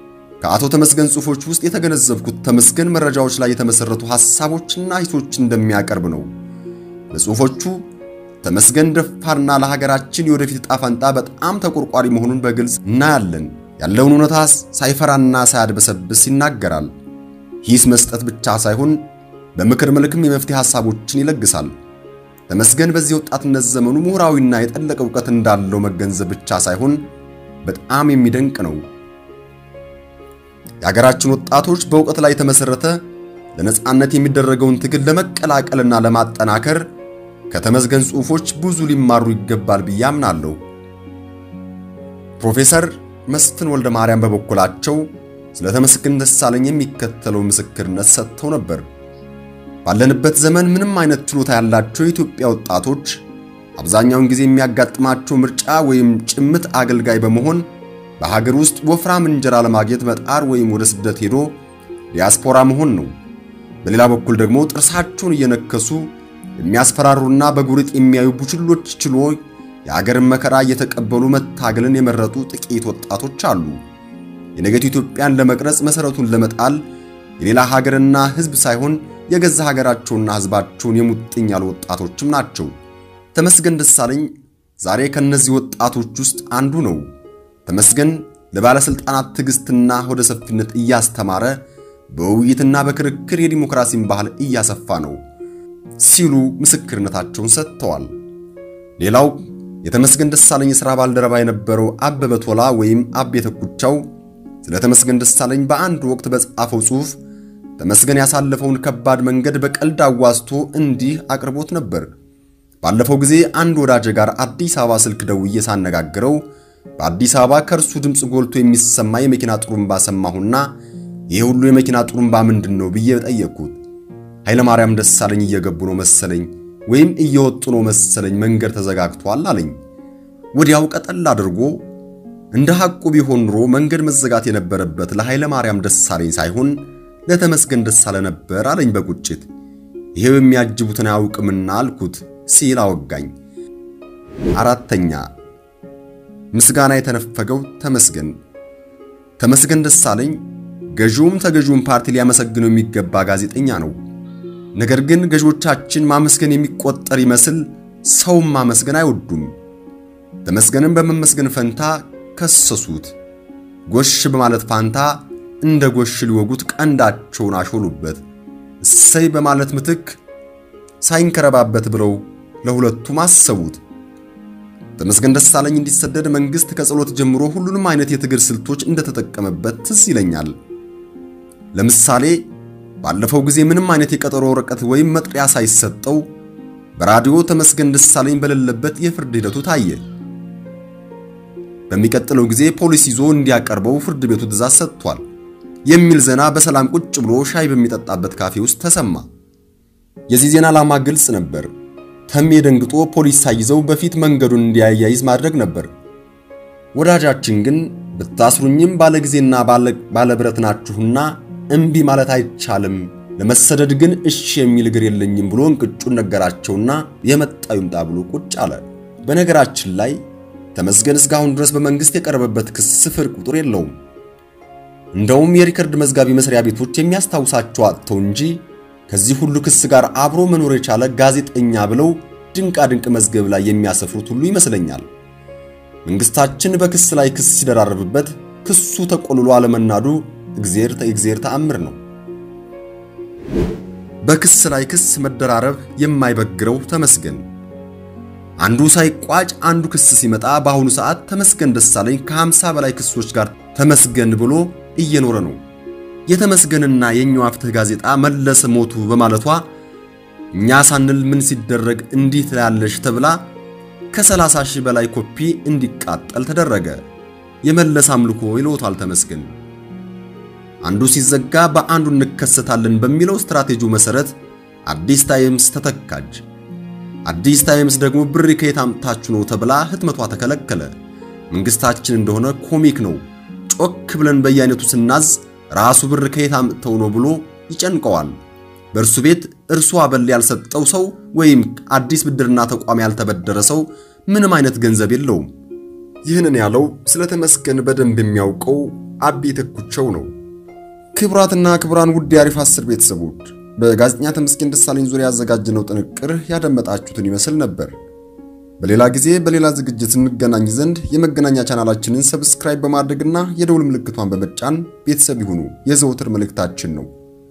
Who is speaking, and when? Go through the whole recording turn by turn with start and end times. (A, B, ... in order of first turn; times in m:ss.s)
0:00.4-0:06.3 A
0:07.1-0:07.8 A
0:08.4-0:16.9 A
0:17.6-0:19.0 A
0:19.5-0:21.7 A
0:22.5-0:27.0 A
0:27.6-0:28.8 A
0:30.8-0:33.0 A
0:33.6-0:36.9 A
0:37.5-0:40.6 A
0:42.4-0:48.8 A
0:49.8-0:53.2 A
0:53.8-0:57.7 A
0:58.2-1:01.6 A
1:02.1-1:03.1 A
1:03.8-1:13.8 A
1:14.6-1:16.8 A
1:17.4-1:22.7 A
1:23.3-1:27.1 A
1:27.6-1:35.2 A
1:36.0-1:38.1 A
1:39.0-1:44.0 A
1:44.6-1:47.2 A
1:47.8-1:52.1 A
1:52.8-1:56.4 A
1:57.0-2:00.7 A
2:01.3-2:03.8 A
2:04.4-2:09.8 A
2:10.5-2:11.8 A
2:12.5-2:19.5 A
2:20.1-2:23.3 A
2:24.5-2:25.2 A
2:26.5-2:28.4 A
2:29.4-2:30.4 A
2:30.9-2:34.0 A
2:34.7-2:39.5 A
2:40.4-2:43.1 A
2:43.9-2:48.2 A
2:48.8-2:50.2 A
2:51.0-2:53.8 A
2:55.0-3:00.5 A
3:01.7-3:02.4 A
3:03.0-3:06.2 A
3:07.0-3:10.0 A
3:11.9-3:15.2 A
3:15.8-3:19.3 A
3:20.3-3:21.7 A
3:22.3-3:25.9 A
3:26.9-3:40.2 A
3:40.7-3:43.9 A
3:45.1-3:55.1 A
3:56.0-4:02.0 A
4:04.2-4:07.5 A
4:08.6-4:15.6 A
4:16.3-4:19.7 A
4:20.5-4:23.4 A
4:24.1-4:27.0 A
4:27.6-4:29.5 A
4:30.8-4:34.3 A
4:34.9-4:36.4 A
4:37.2-4:40.9 A
4:41.5-4:48.4 A
4:48.9-4:55.5 A
4:56.2-5:00.3 A
5:01.1-5:07.9 A
5:08.8-5:17.1 A